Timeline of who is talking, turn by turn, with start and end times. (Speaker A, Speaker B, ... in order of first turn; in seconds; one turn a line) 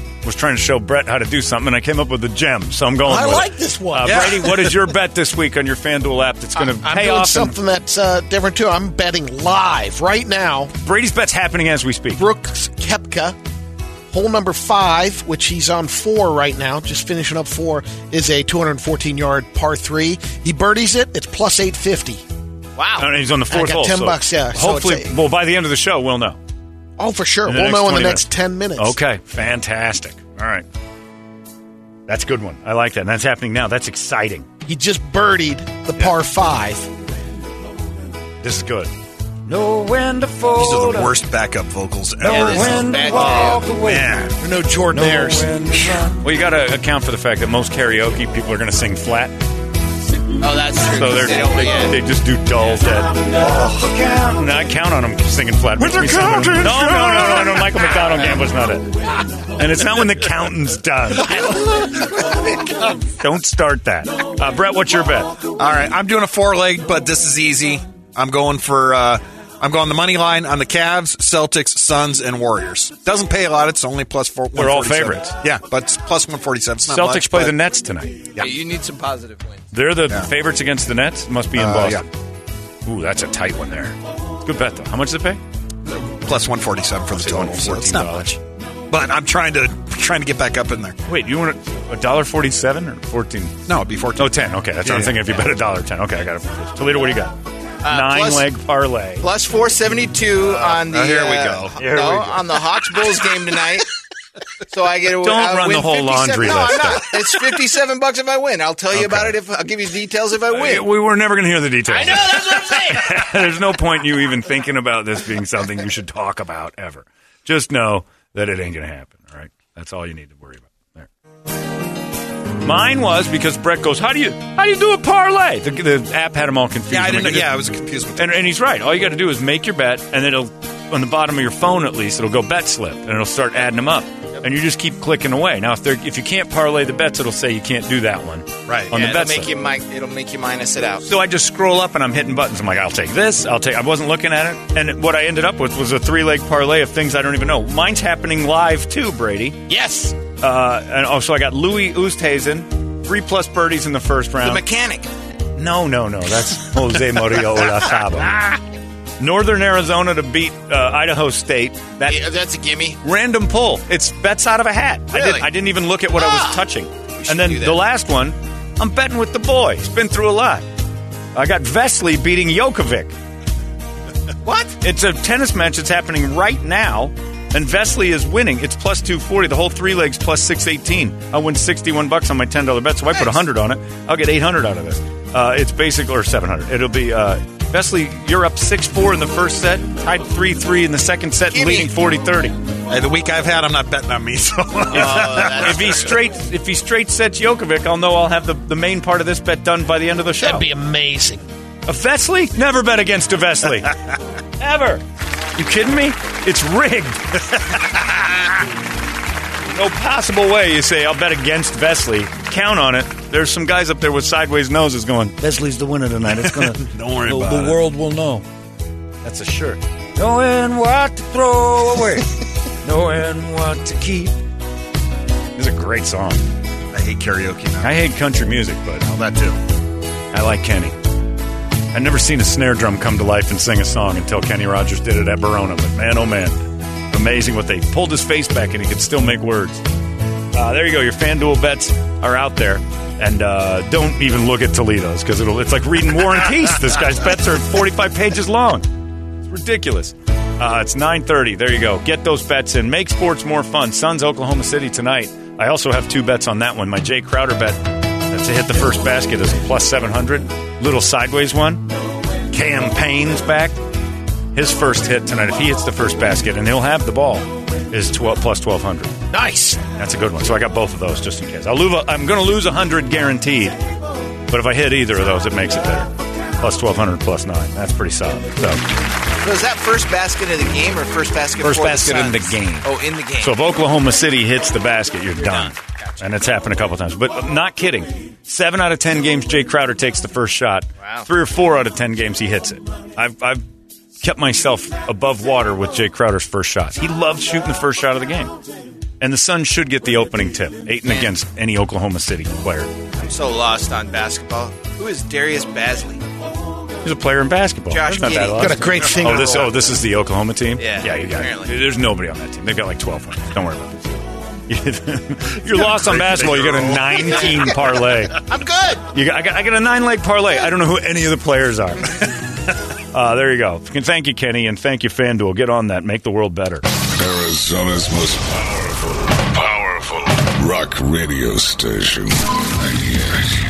Speaker A: 0.2-7.6
Speaker B: 3.0-4.5
Speaker C: 4.0-4.4
Speaker B: 6.5-10.7
Speaker A: 10.8-12.2
Speaker B: 12.2-13.3
Speaker B: 14.1-22.2
Speaker D: 22.8-23.1
Speaker A: 23.0-26.4
Speaker B: 23.5-25.1
Speaker B: 27.0-29.0
Speaker A: 27.4-30.6
Speaker A: 32.1-34.5
Speaker B: 34.6-36.9
Speaker A: 38.4-38.9
Speaker A: 39.5-41.1
Speaker C: 40.5-44.4
Speaker A: 42.2-44.0
Speaker D: 42.2-43.7
Speaker B: 44.4-46.1
Speaker A: 44.9-49.3
Speaker D: 50.4-51.9
Speaker A: 50.9-62.0
Speaker C: 55.8-57.7
Speaker A: 63.0-65.4
Speaker C: 65.6-77.5
Speaker A: 74.5-75.3
Speaker A: 76.9-78.5
Speaker D: 78.4-79.6
Speaker A: 79.7-82.1
Speaker C: 81.5-82.0
Speaker A: 82.8-85.4
Speaker C: 85.8-88.3
Speaker A: 87.1-88.4
Speaker C: 88.9-90.9
Speaker A: 91.0-93.5
Speaker C: 93.7-95.3
Speaker A: 94.2-97.3
Speaker D: 97.8-98.5
Speaker A: 97.9-99.3
Speaker D: 99.2-103.9
Speaker C: 100.5-101.8
Speaker A: 101.8-102.5
Speaker D: 104.7-110.8
Speaker A: 105.2-107.1
Speaker A: 108.9-109.3
Speaker A: 110.5-121.1
Speaker D: 111.9-113.1
Speaker A: 122.6-127.5
Speaker C: 126.9-128.3
Speaker A: 128.2-139.5
Speaker C: 138.7-138.9
Speaker D: 138.9-141.0
Speaker A: 141.0-149.6
Speaker D: 149.7-150.2
Speaker A: 150.4-154.6
Speaker D: 154.4-155.1
Speaker A: 155.6-158.6
Speaker A: 159.2-162.2
Speaker D: 162.1-163.0
Speaker A: 163.0-170.7
Speaker D: 165.1-165.5
Speaker D: 166.1-166.6
Speaker D: 167.2-167.8
Speaker A: 171.3-173.1
Speaker D: 174.4-174.7
Speaker A: 174.8-192.6
Speaker D: 191.5-191.9
Speaker C: 192.9-196.0
Speaker D: 194.9-195.7
Speaker A: 194.9-200.6
Speaker B: 200.4-201.4
Speaker A: 201.8-204.0
Speaker A: 204.6-205.0
Speaker A: 205.5-208.5
Speaker A: 209.6-218.4
Speaker C: 216.8-217.8
Speaker A: 219.2-222.2
Speaker A: 222.8-224.3
Speaker A: 225.6-226.4
Speaker C: 226.9-227.9
Speaker A: 227.8-229.1
Speaker C: 229.0-229.6
Speaker A: 230.3-230.9
Speaker A: 231.9-239.8
Speaker A: 240.5-248.8
Speaker A: 249.4-261.9
Speaker A: 262.5-263.7
Speaker A: 264.5-269.1
Speaker B: 269.3-269.8
Speaker A: 269.8-273.8
Speaker A: 274.5-278.8
Speaker D: 279.4-283.6
Speaker A: 281.6-293.6
Speaker A: 294.2-298.5
Speaker A: 299.2-303.0
Speaker D: 303.2-306.2
Speaker A: 307.0-314.1
Speaker D: 307.9-309.4
Speaker B: 308.6-309.7
Speaker D: 310.8-311.7
Speaker A: 314.7-318.5
Speaker C: 315.9-317.1
Speaker D: 317.2-317.7
Speaker D: 318.4-319.0
Speaker A: 319.1-322.4
Speaker A: 323.0-326.8
Speaker E: 327.2-333.4